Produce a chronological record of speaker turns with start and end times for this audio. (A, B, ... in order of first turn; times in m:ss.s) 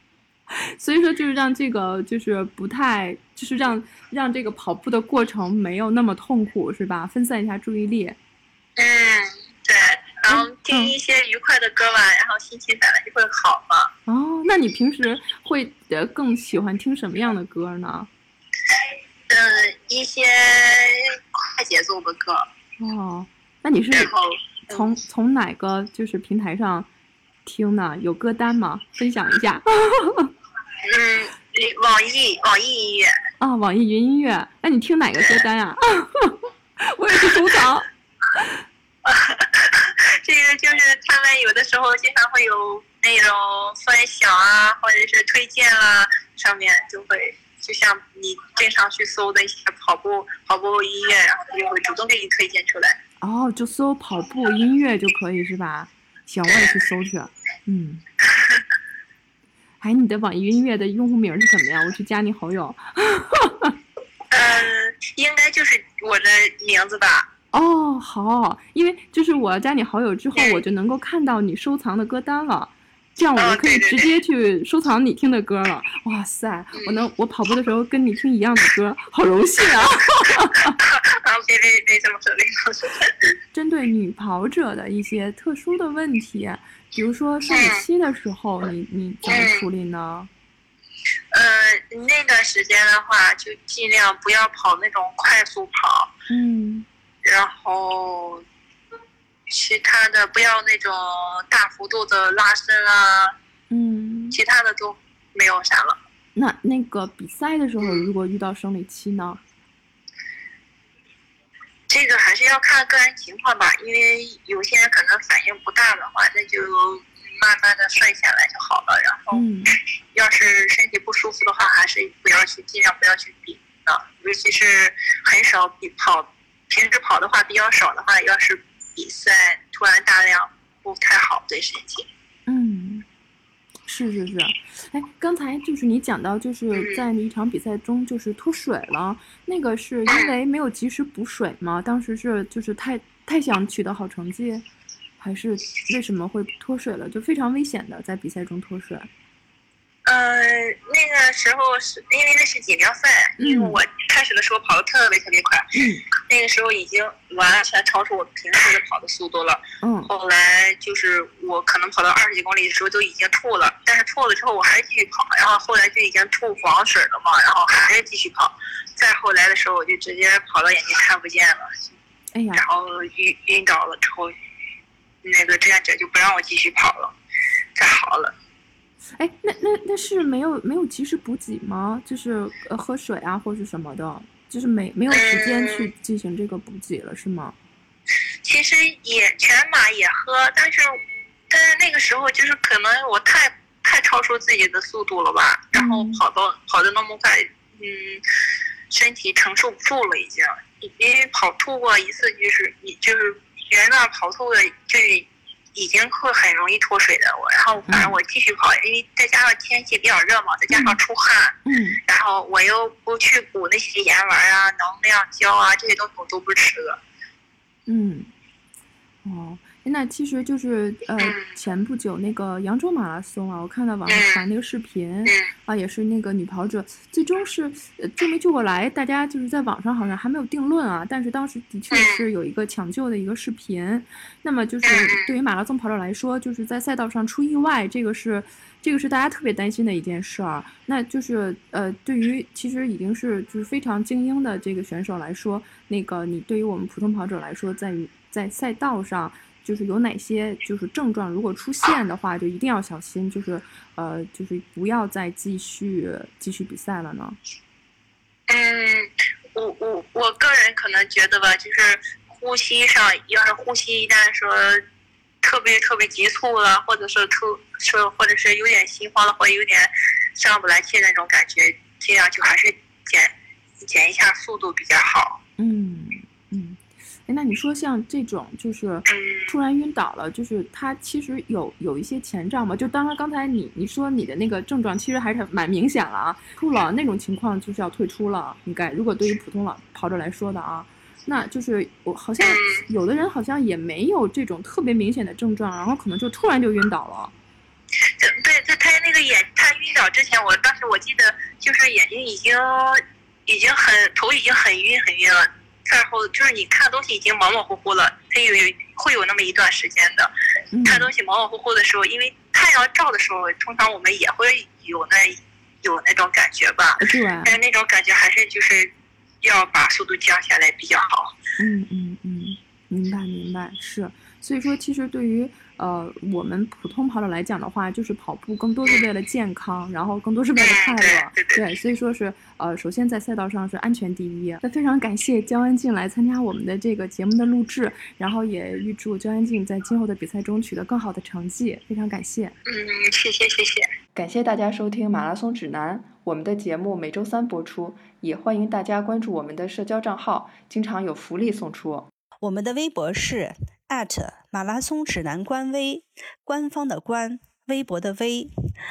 0:00.6-0:08.2 A
0:08.8-0:13.9 B
0:10.3-0:10.9 A
0:14.1-0:18.1 A
0:19.3-0:22.5 B
0:22.8-0:24.1 A
0:23.9-0:24.9 B
0:24.7-0:26.9 A
0:27.4-0:30.3 A
0:30.8-0:33.1 B
0:33.4-0:38.5 A
0:39.0-0:53.0 B
0:53.2-0:58.0 A
0:58.3-0:58.6 B
0:59.8-1:03.7 A
1:04.3-1:07.3 B
1:07.5-1:20.8 A
1:10.3-1:10.6 B
1:13.4-1:14.1 B
1:16.8-1:17.0 B
1:20.8-1:23.3 B
1:23.5-1:30.3 A
1:27.5-1:27.8 B
1:29.2-1:29.6 B
1:31.3-1:36.1 B
1:36.3-1:36.9 A
1:37.2-1:38.4 B
1:39.5-1:43.3 B
1:43.7-1:44.4 A
1:44.3-1:46.0 B
1:46.4-1:49.4 A
1:51.9-1:59.4 B
1:59.3-1:59.8 A
2:00.1-2:12.1 B
2:12.5-2:13.0 A
2:13.8-2:24.6 A
2:16.7-2:17.0 B
2:20.1-2:20.3 B
2:25.2-2:29.1 A
2:30.0-2:35.7 B
2:33.4-2:33.8 A
2:35.7-2:36.0 A
2:36.3-2:51.8 B
2:39.8-2:40.1 A
2:52.3-2:52.6 A
2:52.5-2:54.3 B
2:55.2-2:57.1 B
2:57.8-2:58.3 B
2:59.2-3:07.6 A
3:05.1-3:05.9 B
3:08.4-3:11.0 B
3:11.5-3:18.2 B
3:15.7-3:16.2 A
3:18.9-3:37.0 B
3:27.9-3:28.1 A
3:30.7-3:31.0 A
3:31.6-3:32.0 A
3:37.9-3:38.3 A
3:39.2-4:17.4 A
3:41.2-3:41.5 B
3:44.1-3:44.4 B
3:51.9-3:52.2 B
3:54.8-3:55.3 B
4:18.5-4:24.8 B
4:25.4-4:35.4 B
4:35.6-4:57.3 A
4:39.1-4:39.6 B
4:52.4-4:52.8 B
4:58.2-5:10.3 B
5:10.7-5:11.1 A
5:10.8-5:21.3 B
5:17.0-5:17.5 A
5:21.6-5:42.5 A
5:30.6-5:31.6 B
5:42.6-5:43.9 B
5:44.1-5:52.1 A
5:52.4-5:58.5 C